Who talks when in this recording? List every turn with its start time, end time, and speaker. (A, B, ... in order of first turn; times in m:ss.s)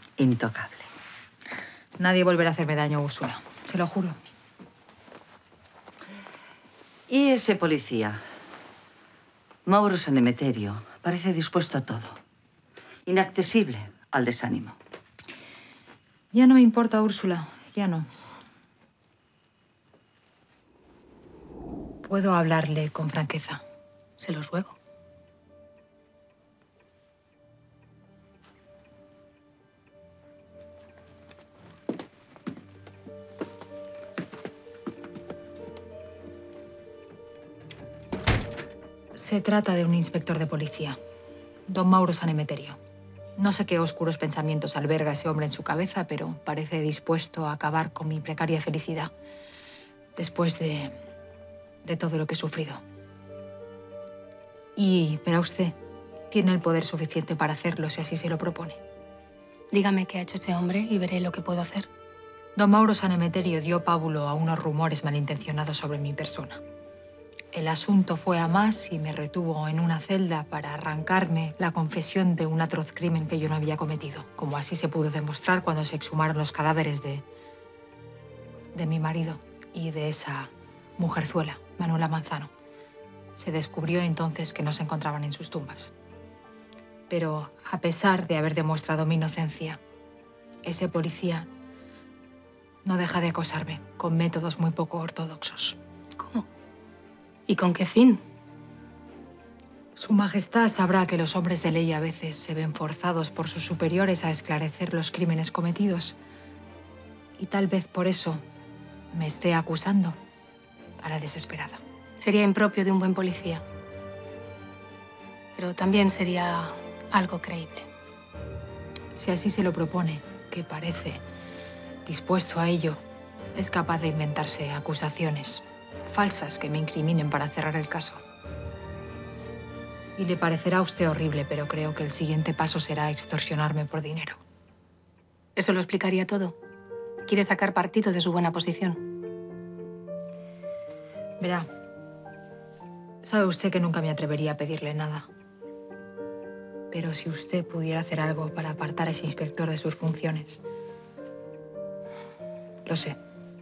0:00.2-0:00.9 A
0:02.0-0:04.2 B
0:07.1-0:08.2 A
0:09.7-0:12.2 A
0:13.1-0:14.8 A
0:16.3-0:18.1 B
0:22.0-0:23.6 B
0:24.2-0:24.8 C
0:39.2-0:41.0 B
0:41.7-0:42.8 B
0:43.4-0:49.1 B
0:50.2-0:50.9 B
0:51.8-0:52.8 B
0:54.8-0:55.8 B
0:56.3-0:58.8 B
0:59.7-1:01.9 C
1:02.6-1:06.6 B
1:07.5-1:17.2 B
1:18.8-1:22.5 B
1:23.4-1:25.9 B
1:27.1-1:29.8 B
1:30.7-1:31.5 B
1:32.8-1:35.8 B
1:36.2-1:36.5 C
1:37.5-1:38.2 C
1:40.0-1:46.2 B
1:47.4-1:48.4 B
1:49.1-1:50.2 B
1:51.0-1:51.8 B
1:52.2-1:53.6 C
1:55.6-1:57.9 C
1:59.2-2:01.2 B
2:02.1-2:03.0 B
2:03.6-2:08.2 B
2:10.2-2:14.4 B
2:15.6-2:16.6 C
2:17.3-2:19.0 C
2:21.4-2:21.7 B
2:23.2-2:25.3 B
2:26.9-2:30.6 B
2:32.8-2:33.2 B